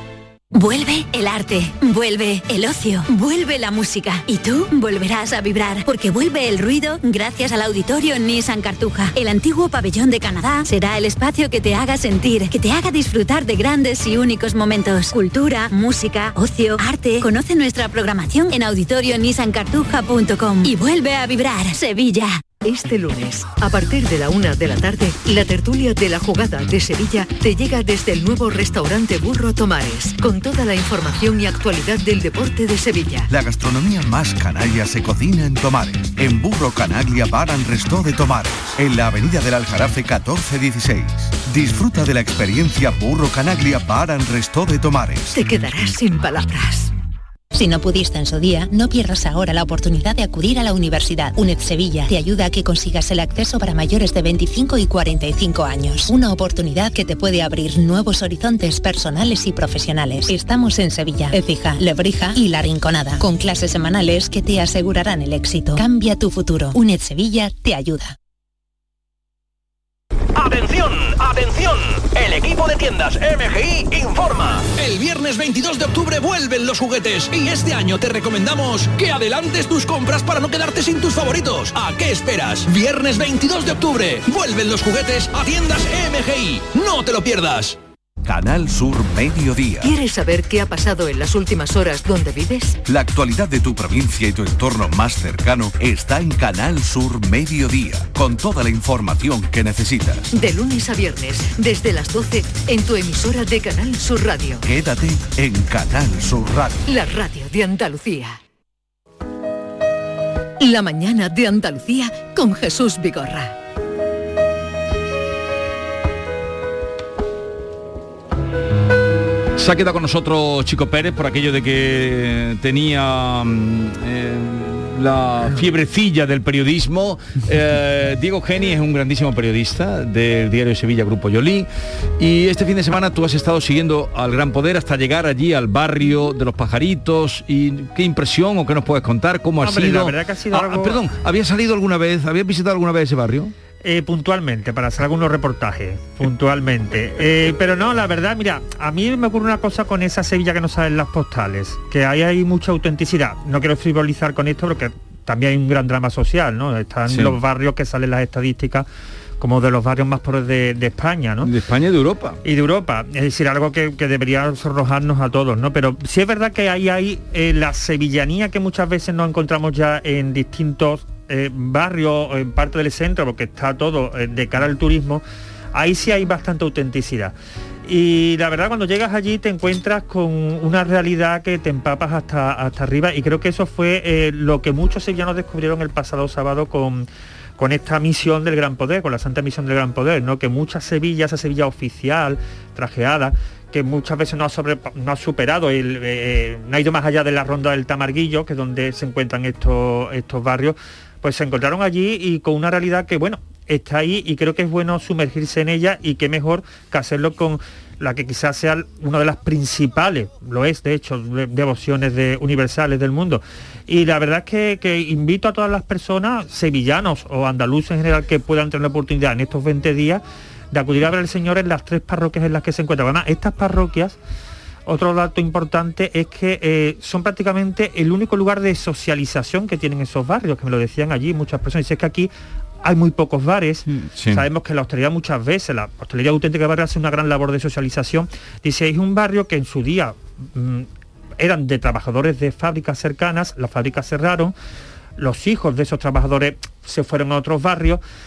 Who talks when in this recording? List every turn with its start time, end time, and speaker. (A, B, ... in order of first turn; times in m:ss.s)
0:00.5-0:22.4 A
0:22.6-0:33.3 B
0:33.3-0:45.4 C
0:45.3-0:46.9 B
0:47.5-1:08.1 D
1:10.3-1:27.8 E
1:28.2-1:29.9 C
1:29.8-1:32.8 B
1:32.8-1:40.3 C
1:40.3-1:44.6 B
1:44.6-1:46.8 C
1:46.9-1:48.4 B
1:50.6-1:53.6 B
1:59.6-2:11.7 F
2:12.2-2:23.5 F
2:19.6-2:21.0 G
2:23.8-2:38.9 G
2:37.1-2:37.4 F
2:39.4-2:41.5 G
2:41.4-2:42.4 F
2:42.4-2:55.2 G
2:55.7-2:57.3 G
2:57.8-3:07.1 G
3:07.6-3:44.2 G
3:44.9-3:52.3 G
3:52.8-4:00.9 G
3:54.2-3:54.4 F
4:01.4-4:04.5 G
4:05.2-4:08.0 G